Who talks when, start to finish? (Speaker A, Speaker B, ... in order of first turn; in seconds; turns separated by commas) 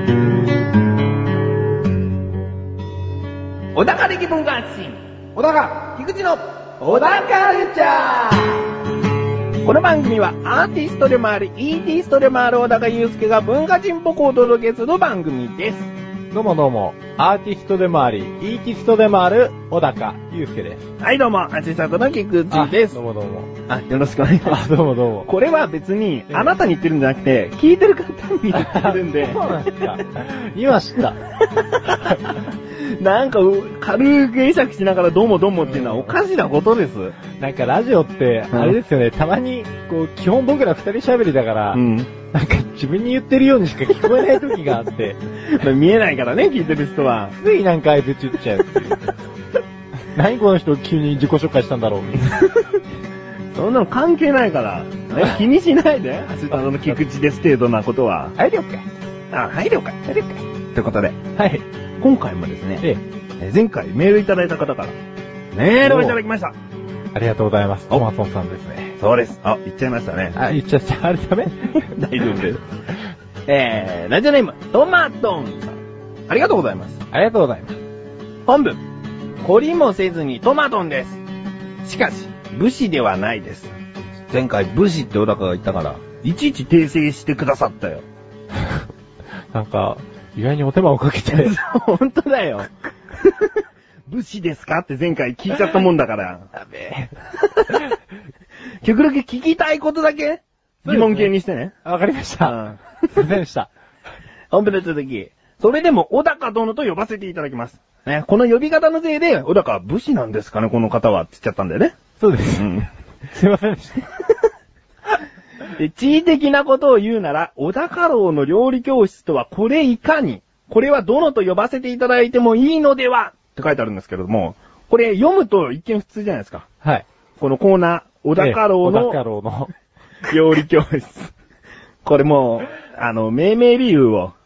Speaker A: 3.7-8.6, Speaker A: 9.6-15.9, Speaker B: 16.3-20.9, Speaker A: 21.0-23.0, Speaker B: 22.5-23.5, Speaker A: 23.7-24.7, Speaker B: 24.4-25.3, Speaker A: 25.2-29.7, Speaker B: 28.5-31.2, Speaker A: 31.5-37.2, Speaker B: 35.8-36.1, Speaker B: 37.3-45.2, Speaker A: 38.5-38.8, Speaker A: 41.7-42.1, Speaker A: 45.4-47.3, Speaker B: 47.4-49.1, Speaker B: 50.1-52.5, Speaker A: 53.5-58.4, Speaker B: 58.4-58.9, Speaker A: 59.3-60.1, Speaker B: 60.1-60.4, Speaker A: 60.7-61.2, Speaker B: 61.4-61.6, Speaker A: 62.0-62.9, Speaker A: 63.4-65.0, Speaker A: 65.5-66.5, Speaker B: 65.8-66.2, Speaker B: 67.1-69.0, Speaker A: 69.0-70.4, Speaker B: 70.4-71.9, Speaker A: 71.8-72.6, Speaker A: 73.5-77.0, Speaker B: 77.1-77.8, Speaker A: 78.5-78.8, Speaker A: 79.4-81.2, Speaker A: 81.8-83.7, Speaker A: 84.3-88.0, Speaker B: 89.5-91.6, Speaker A: 91.3-96.5, Speaker B: 96.5-97.1, Speaker A: 98.8-101.7, Speaker B: 100.8-101.3, Speaker B: 101.8-103.7, Speaker A: 102.4-102.8, Speaker A: 104.5-112.0, Speaker B: 112.2-114.1, Speaker A: 112.6-112.9, Speaker A: 115.8-126.7, Speaker A: 127.4-129.2, Speaker B: 128.4-129.7, Speaker A: 130.3-131.3, Speaker A: 132.0-134.3